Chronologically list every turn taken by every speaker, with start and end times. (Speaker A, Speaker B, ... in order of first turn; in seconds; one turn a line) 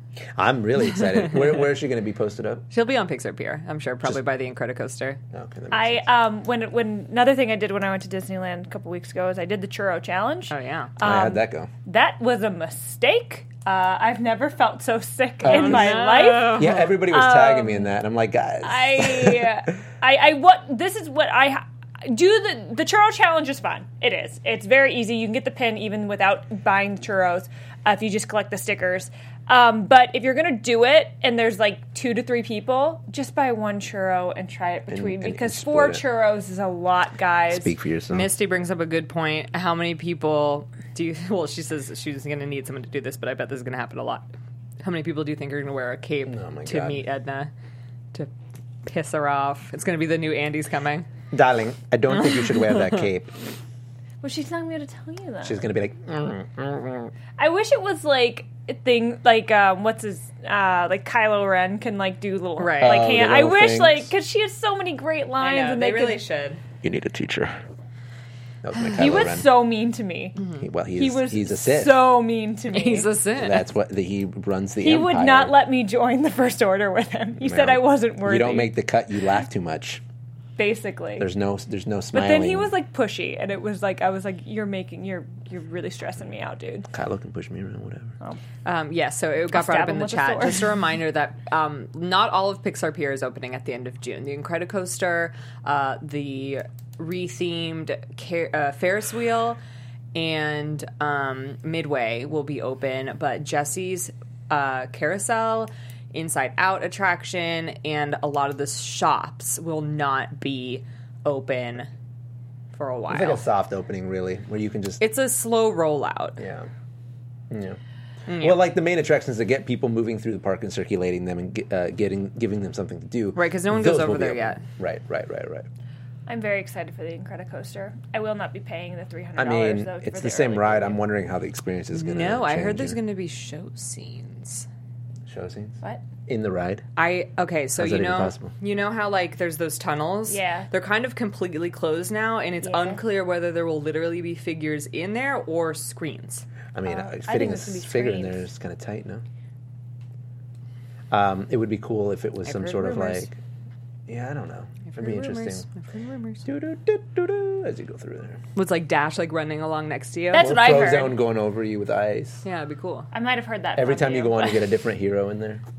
Speaker A: 0.3-2.6
Speaker B: 2.7-5.2
Speaker A: 5.3-6.1
Speaker C: 5.7-17.9
Speaker B: 10.5-10.9
Speaker A: 11.0-11.7
Speaker A: 15.4-19.7
Speaker B: 15.4-16.8
Speaker C: 18.6-37.7
Speaker A: 34.9-36.0
Speaker A: 37.5-38.3
Speaker B: 38.1-44.3
Speaker B: 44.8-47.5
Speaker A: 46.2-47.0
Speaker B: 48.8-51.1
Speaker A: 51.3-53.3
Speaker B: 52.6-52.9
Speaker C: 54.2-55.6
Speaker A: 55.4-57.1
Speaker C: 57.4-66.2
Speaker B: 62.6-63.1
Speaker A: 62.8-64.1
Speaker B: 65.4-66.6
Speaker A: 66.8-67.6
Speaker A: 68.6-69.7
Speaker C: 68.9-70.4
Speaker A: 70.6-72.1
Speaker C: 71.0-73.1
Speaker B: 72.7-73.7
Speaker A: 73.4-75.5
Speaker C: 74.8-78.7
Speaker A: 77.4-80.0
Speaker C: 80.6-81.3
Speaker A: 81.2-82.7
Speaker C: 82.1-86.9
Speaker A: 86.9-88.2
Speaker B: 88.6-99.6
Speaker C: 89.5-90.7
Speaker B: 100.1-111.9
Speaker B: 112.7-113.4
Speaker A: 113.1-115.0
Speaker B: 115.0-116.4
Speaker A: 116.4-116.7
Speaker A: 117.5-117.8
Speaker B: 118.3-118.6
Speaker A: 118.4-125.7
Speaker B: 123.3-124.7
Speaker C: 126.3-131.0
Speaker A: 129.3-133.0
Speaker B: 131.9-134.7
Speaker A: 135.3-136.8
Speaker B: 137.0-146.4
Speaker A: 137.8-138.5
Speaker C: 140.3-140.7
Speaker C: 142.6-143.0
Speaker A: 146.7-149.2
Speaker C: 146.8-148.5
Speaker A: 151.1-153.4
Speaker B: 152.4-153.3
Speaker A: 154.1-155.6
Speaker B: 154.9-156.4
Speaker A: 156.4-158.4
Speaker B: 158.6-160.5
Speaker C: 160.3-161.2
Speaker A: 160.3-162.4
Speaker B: 162.4-163.1
Speaker C: 163.1-164.6
Speaker A: 163.8-165.6